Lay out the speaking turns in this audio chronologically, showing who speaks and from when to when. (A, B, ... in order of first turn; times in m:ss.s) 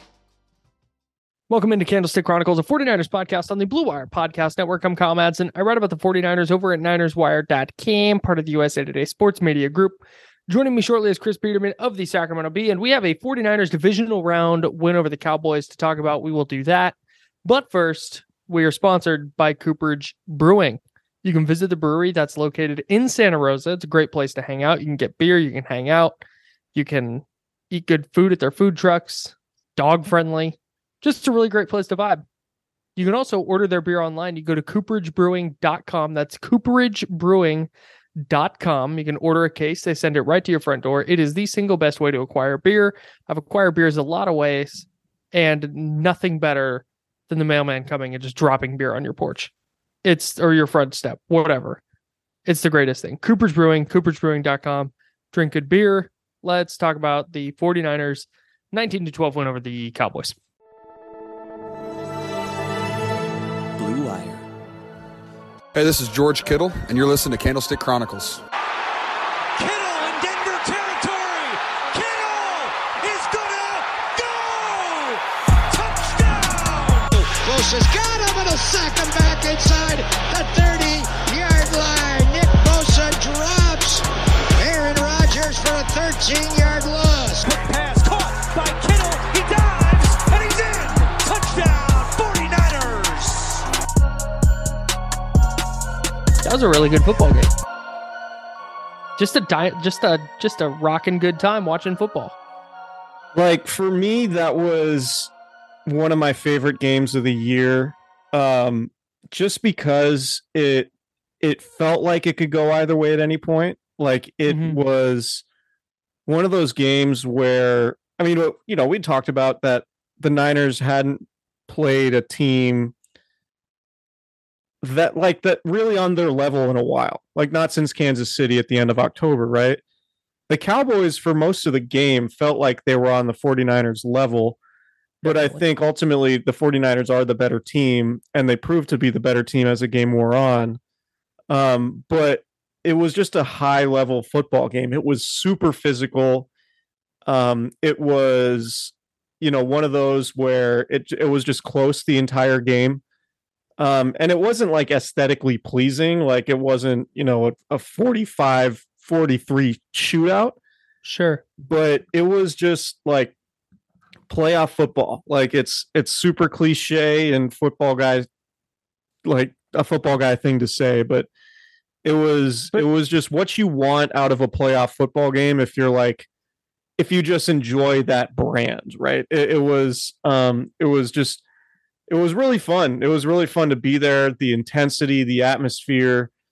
0:01.5-0:26.2 A
0:26.7-0:32.2 A
0:33.0-0:49.5 A
0:50.0-0:51.8 A
0:52.4-1:00.4 A
1:03.8-1:04.4 B
1:05.7-1:08.4 B
1:09.6-1:17.1 C
1:17.2-1:24.1 D
1:24.6-1:27.4 D
1:27.4-1:33.6 C
1:36.4-1:37.5 A
1:39.2-1:42.3 A
1:43.3-1:45.3 E
1:45.9-1:50.9 E
1:51.4-1:55.4 E
1:54.5-1:54.8 A
1:56.3-2:02.9 E
2:04.8-2:09.8 E
2:10.5-2:14.6 E
2:15.2-2:15.6 A
2:15.2-2:20.8 E
2:21.5-2:26.5 E
2:27.2-2:33.0 E
2:33.8-2:40.6 E
2:41.0-2:41.4 A
2:41.6-2:43.3 E
2:44.3-2:48.3 E
2:49.2-2:51.3 E
2:52.0-2:56.3 E
2:57.0-3:01.4 E
3:02.1-3:06.3 E